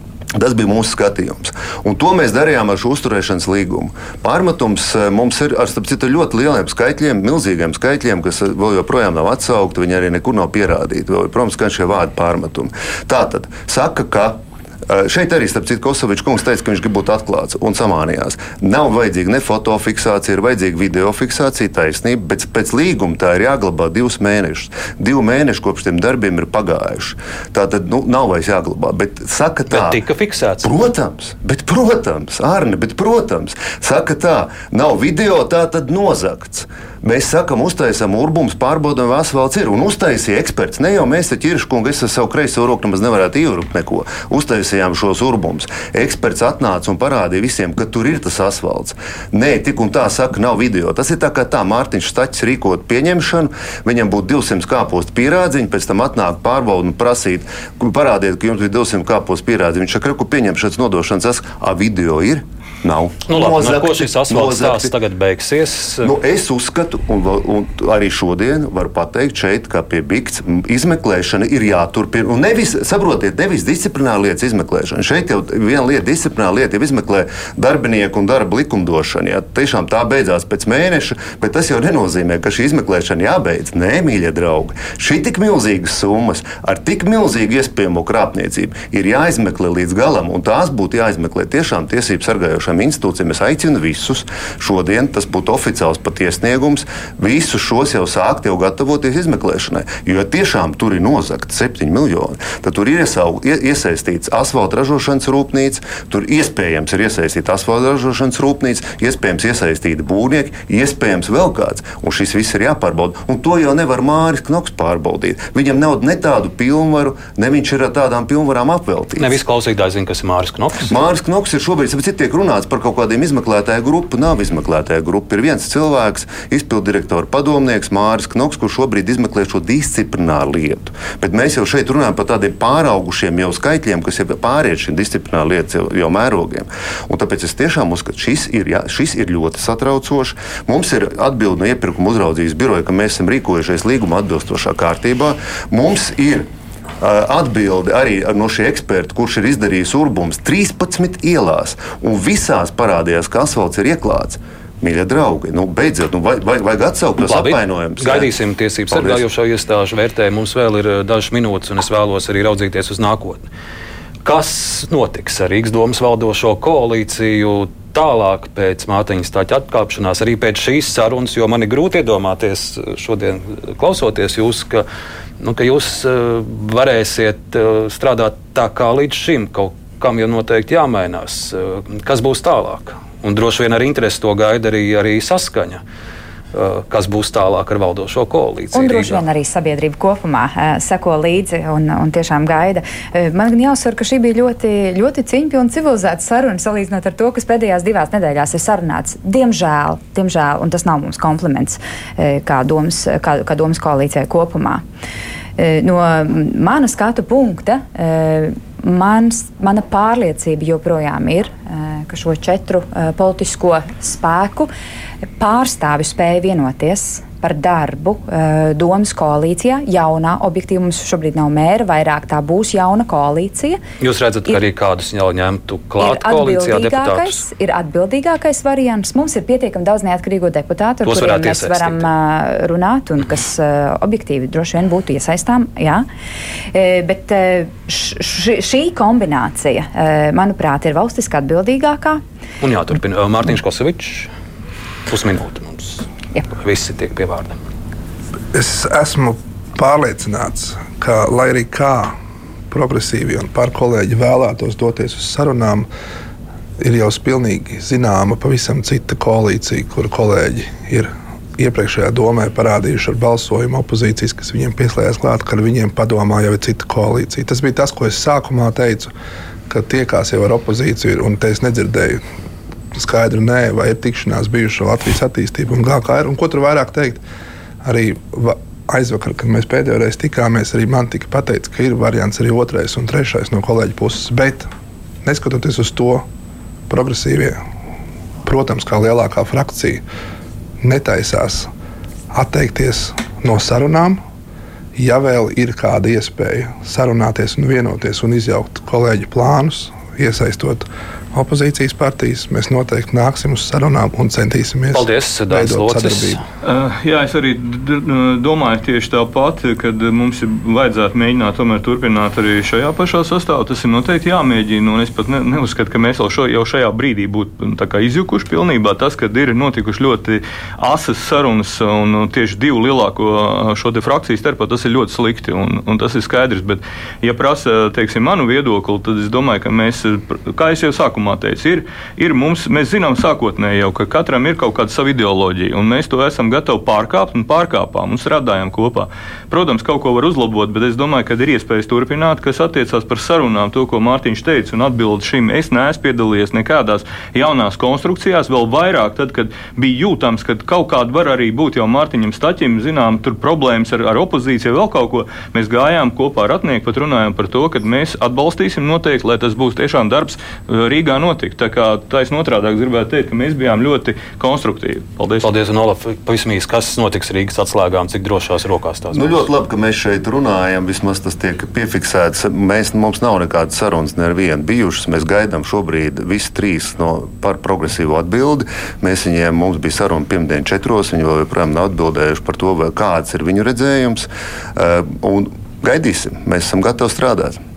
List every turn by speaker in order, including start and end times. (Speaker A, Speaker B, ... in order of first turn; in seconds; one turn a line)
Speaker A: 0.4-30.0
Speaker B: 29.7-30.7
Speaker A: 30.6-64.9
Speaker B: 63.3-66.1
Speaker A: 66.0-119.3
Speaker B: 119.2-120.9
Speaker A: 120.9-146.5
Speaker A: 147.0-158.3
Speaker B: 157.2-163.4
Speaker A: 158.9-159.2
Speaker B: 164.2-174.8
Speaker B: 175.4-185.8
Speaker B: 186.5-189.2
Speaker C: 188.7-204.8
Speaker C: 205.6-214.7
Speaker C: 215.4-223.8
Speaker B: 224.0-227.4
Speaker C: 226.0-236.1
Speaker B: 231.1-232.1
Speaker C: 236.7-242.2
Speaker B: 242.6-244.3
Speaker B: 245.1-247.6
Speaker D: 248.5-252.1
Speaker D: 252.7-255.9
Speaker D: 256.8-269.1
Speaker D: 269.7-272.2
Speaker D: 272.9-277.2
Speaker D: 277.8-284.7
Speaker D: 285.2-286.2
Speaker D: 286.9-287.6
Speaker D: 288.4-290.0
Speaker D: 290.8-291.7
Speaker D: 292.3-294.2
Speaker D: 294.9-306.4
Speaker B: 304.9-306.4
Speaker E: 306.6-365.5
Speaker B: 365.4-369.5
Speaker A: 369.1-387.6